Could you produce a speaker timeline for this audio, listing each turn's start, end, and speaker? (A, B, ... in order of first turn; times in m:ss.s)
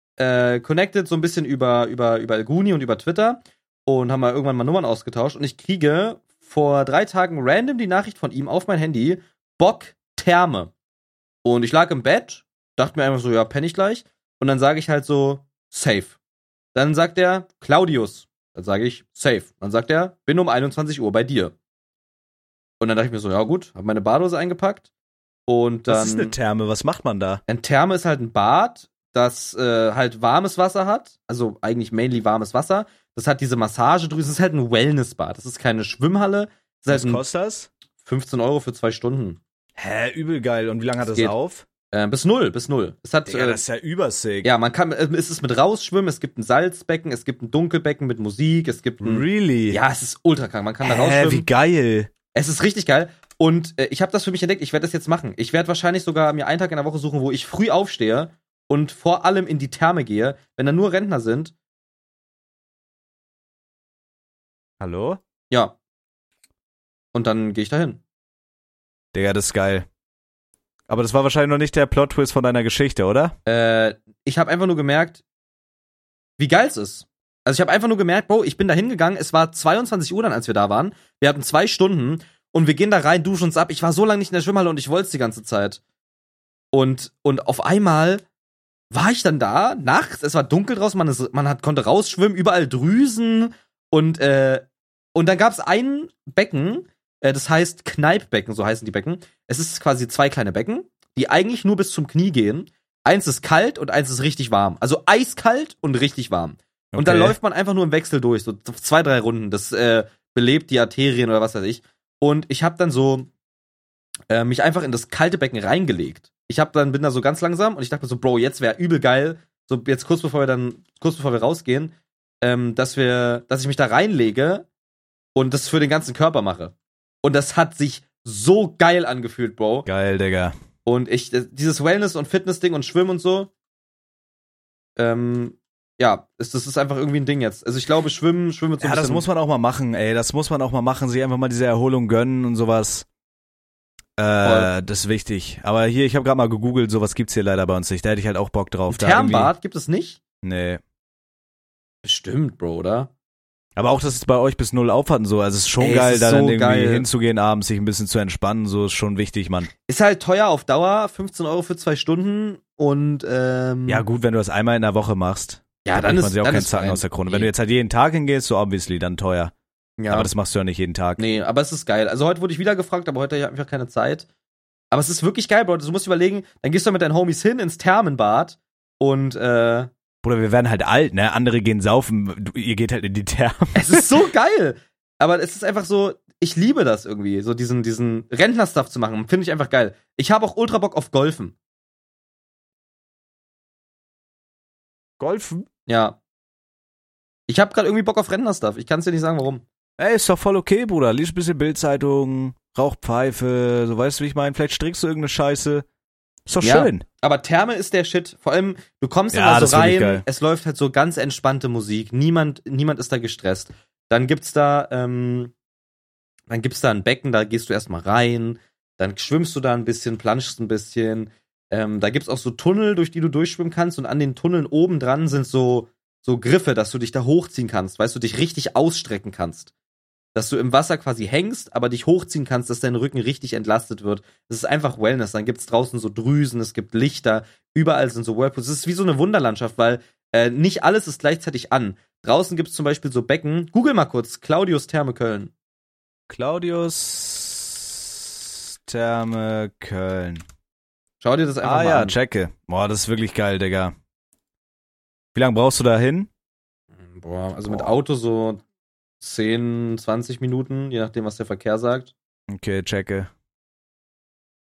0:00.2-0:10.7 A
0:11.4-0:16.2 A
0:16.7-0:21.5 A
0:22.8-0:24.9 A
0:25.5-0:26.3 A
0:25.9-0:27.4 B
0:27.5-0:37.2 A
0:36.9-0:37.7 B
0:38.0-0:39.4 A
0:39.8-0:41.6 B
0:41.0-0:41.3 A
0:41.9-0:43.6 A
0:43.3-0:44.5 B
0:44.4-0:51.4 A
0:49.0-0:49.8 B
0:50.8-0:52.1 B
0:52.3-1:01.5 A
1:04.8-1:05.2 B
1:07.1-1:08.0 A
1:09.1-1:09.9 B
1:10.9-1:13.3 B
1:13.4-1:15.2 A
1:16.4-1:25.8 A
1:26.7-1:28.2 A
1:28.9-1:34.6 A
1:35.1-1:53.3 A
1:46.9-1:47.4 B
1:54.3-2:04.6 A
2:05.3-2:09.8 A
2:09.8-2:10.5 B
2:10.8-2:13.5 A
2:15.0-2:19.2 A
2:18.8-2:23.0 B
2:24.2-2:29.5 B
2:24.4-2:24.7 A
2:28.9-2:30.2 A
2:30.4-2:30.8 B
2:32.0-2:33.1 A
2:33.8-2:39.7 B
2:35.8-2:37.0 A
2:39.8-2:44.0 A
2:43.9-2:49.5 B
2:45.8-2:47.5 A
2:50.0-2:50.3 A
2:50.1-2:51.2 B
2:51.2-2:54.2 A
2:54.9-2:59.9 A
3:00.2-3:04.1 B
3:03.7-3:11.5 A
3:15.2-3:15.6 B
3:15.9-3:16.2 A
3:17.5-3:19.6 A
3:20.0-3:25.8 B
3:26.5-3:27.0 B
3:26.6-3:35.5 A
3:29.3-3:30.2 B
3:36.5-3:49.7 A
3:50.3-4:05.5 A
4:06.3-4:10.4 B
4:11.2-4:12.2 A
4:11.6-4:13.9 B
4:15.3-4:16.3 B
4:17.0-4:18.6 A
4:19.2-4:22.1 A
4:22.5-4:23.3 B